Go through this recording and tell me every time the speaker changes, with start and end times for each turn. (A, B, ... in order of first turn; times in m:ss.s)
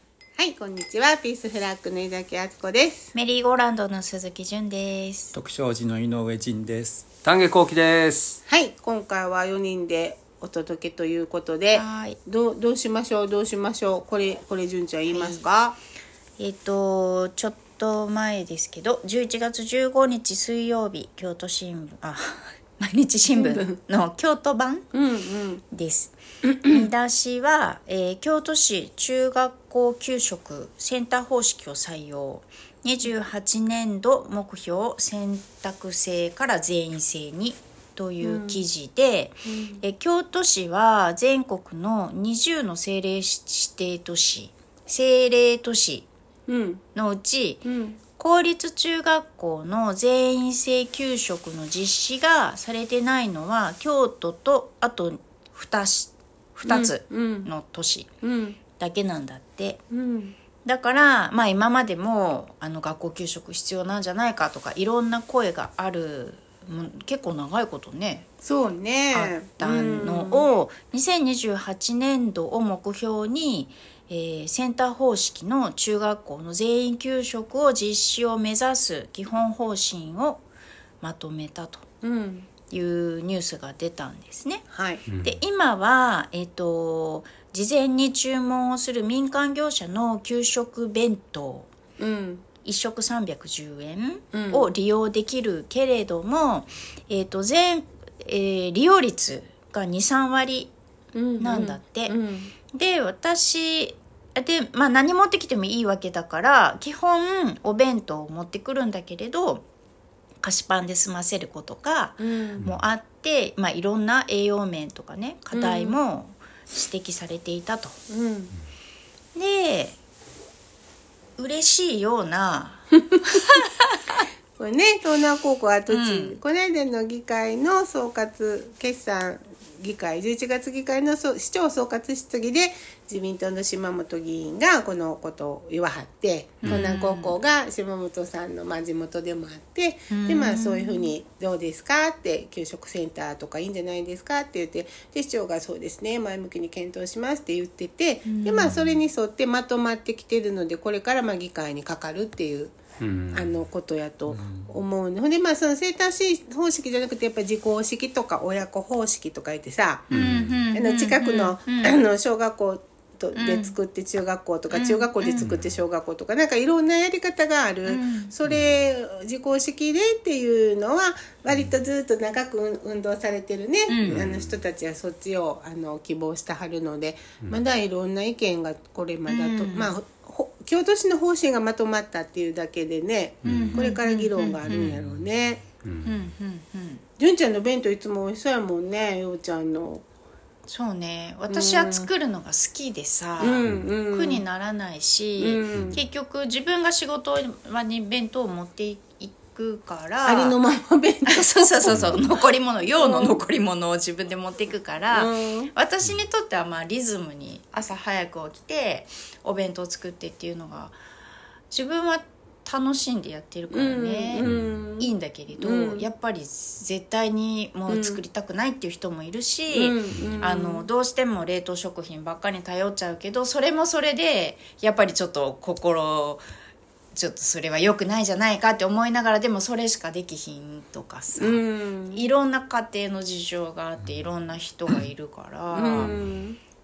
0:00.4-0:03.1 A
0:03.1-0:05.3 B
0:05.3-0:07.1 C
0:07.2-0:08.4 D
0:08.5-0:15.8 A
0:11.7-0:12.2 B
0:15.1-0:15.4 B
0:16.4-0:24.9 B
0:23.3-0:23.8 A
0:24.9-0:25.6 A
0:25.7-0:46.1 B
0:26.6-0:26.8 A
0:38.2-0:38.6 A
0:39.4-0:39.8 A
0:46.5-0:46.8 A
0:46.9-0:47.6 B
0:47.6-0:48.0 A
0:48.2-0:58.1 B
0:56.6-0:57.5 A
0:58.2-0:58.6 A
0:58.8-0:59.8 B
0:59.9-1:00.4 A
1:00.6-1:08.3 B
1:08.4-1:10.5 A
1:09.1-1:20.4 B
1:21.0-1:21.8 B
1:22.0-1:22.5 A
1:22.7-1:24.6 B
1:24.7-1:25.0 A
1:25.1-1:25.4 D
1:25.2-1:31.7 B
1:32.0-1:32.4 A
1:32.6-1:40.7 B
1:34.3-1:34.7 A
1:41.1-1:42.5 A
1:41.4-1:42.1 B
1:42.7-1:49.6 B
1:50.4-1:58.0 B
1:52.2-1:52.6 A
1:55.5-1:56.0 A
1:58.1-1:58.5 A
1:59.3-2:00.0 B
2:01.4-2:04.2 B
2:04.6-2:32.8 A
2:05.9-2:06.4 B
2:16.6-2:17.3 B
2:20.1-2:21.1 B
2:28.3-2:28.8 B
2:28.6-2:28.9 C
2:33.0-2:33.5 D
2:33.3-2:40.1 A
2:34.3-2:34.7 C
2:40.1-2:40.6 D
2:40.1-2:42.0 B
2:40.7-3:05.6 A
2:43.3-2:43.7 B
2:44.7-2:45.5 B
2:45.4-2:45.8 D
2:47.9-2:48.3 B
2:48.4-2:48.8 D
2:53.9-2:54.2 B
2:54.0-2:54.6 D
2:59.3-2:59.9 B
3:03.4-3:03.9 D
3:03.5-3:05.0 B
3:05.8-3:06.2 D
3:06.0-3:07.0 B
3:07.2-3:10.0 A
3:10.7-3:20.6 B
3:11.5-3:12.1 A
3:13.4-3:14.4 A
3:13.6-3:13.9 D
3:15.4-3:16.0 A
3:15.7-3:16.0 D
3:20.2-3:22.2 A
3:21.3-3:31.0 B
3:21.9-3:22.3 D
3:23.0-3:23.4 A
3:25.1-3:25.7 A
3:31.7-3:34.5 B
3:33.7-3:36.0 A
3:34.4-3:34.8 D
3:35.0-3:46.4 B
3:37.9-3:38.2 A
3:39.7-3:40.9 A
3:47.1-3:56.1 B
3:51.4-3:52.3 A
3:54.0-3:54.9 C
3:55.7-3:56.6 A
3:55.9-3:56.4 C